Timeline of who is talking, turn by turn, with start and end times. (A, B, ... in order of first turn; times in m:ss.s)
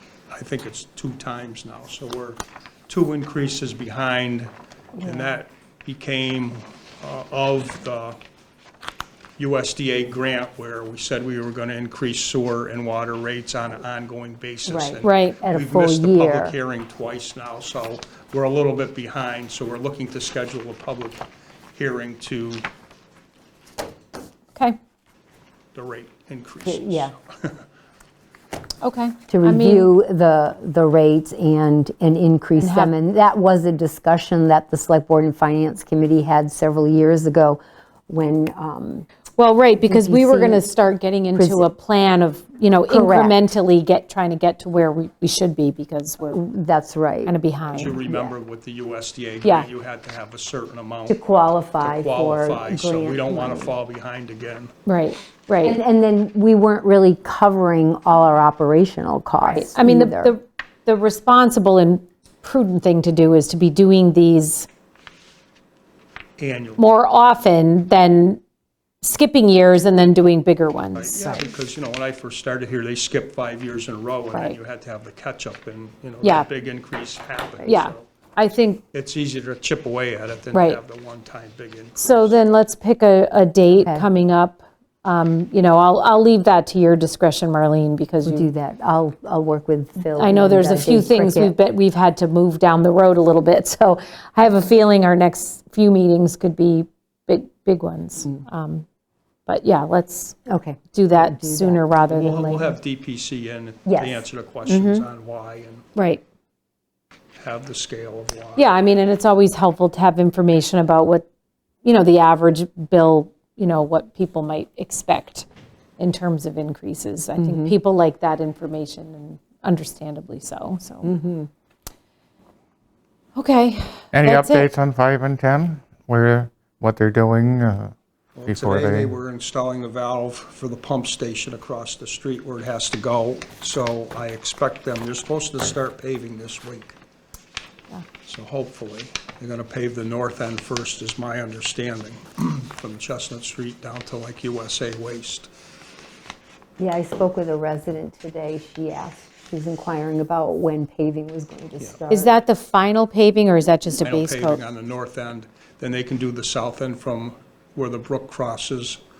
0:00.3-0:08.2 A
0:05.0-0:05.3 B
0:09.4-0:22.7 A
0:14.6-0:16.6 B
0:15.0-0:15.4 C
0:25.7-0:27.6 A
0:26.6-0:27.1 B
0:28.8-0:29.9 C
0:29.3-0:39.1 B
0:32.6-0:32.9 C
0:39.4-0:46.4 C
0:39.8-0:40.6 B
0:41.3-0:41.7 B
0:42.9-0:43.4 B
0:46.3-0:48.3 B
0:47.2-0:48.0 C
0:47.7-0:51.2 A
0:51.1-0:53.7 B
0:51.8-0:54.7 A
0:54.8-0:55.8 C
0:55.6-1:00.4 B
0:59.5-1:04.7 C
1:06.4-1:06.8 A
1:06.8-1:08.4 C
1:09.0-1:11.3 C
1:10.9-1:18.0 A
1:16.2-1:16.5 C
1:17.6-1:18.8 C
1:18.9-1:22.4 A
1:20.5-1:20.8 C
1:22.0-1:28.5 C
1:23.8-1:24.1 B
1:28.2-1:31.5 B
1:30.0-1:38.8 C
1:39.4-1:40.4 C
1:40.5-1:41.8 B
1:40.9-1:42.7 C
1:42.1-1:45.8 A
1:43.8-1:44.2 B
1:44.7-1:45.0 C
1:45.9-1:46.2 C
1:47.4-1:48.7 A
1:48.6-1:51.2 C
1:51.8-1:55.5 C
1:56.0-2:01.2 C
1:57.4-1:57.8 B
2:01.0-2:01.5 B
2:03.3-2:04.7 C
2:04.1-2:07.9 D
2:08.4-2:17.0 A
2:08.5-2:09.1 D
2:18.2-2:25.5 A
2:26.8-2:32.3 B
2:32.1-2:34.6 C
2:34.0-2:39.0 A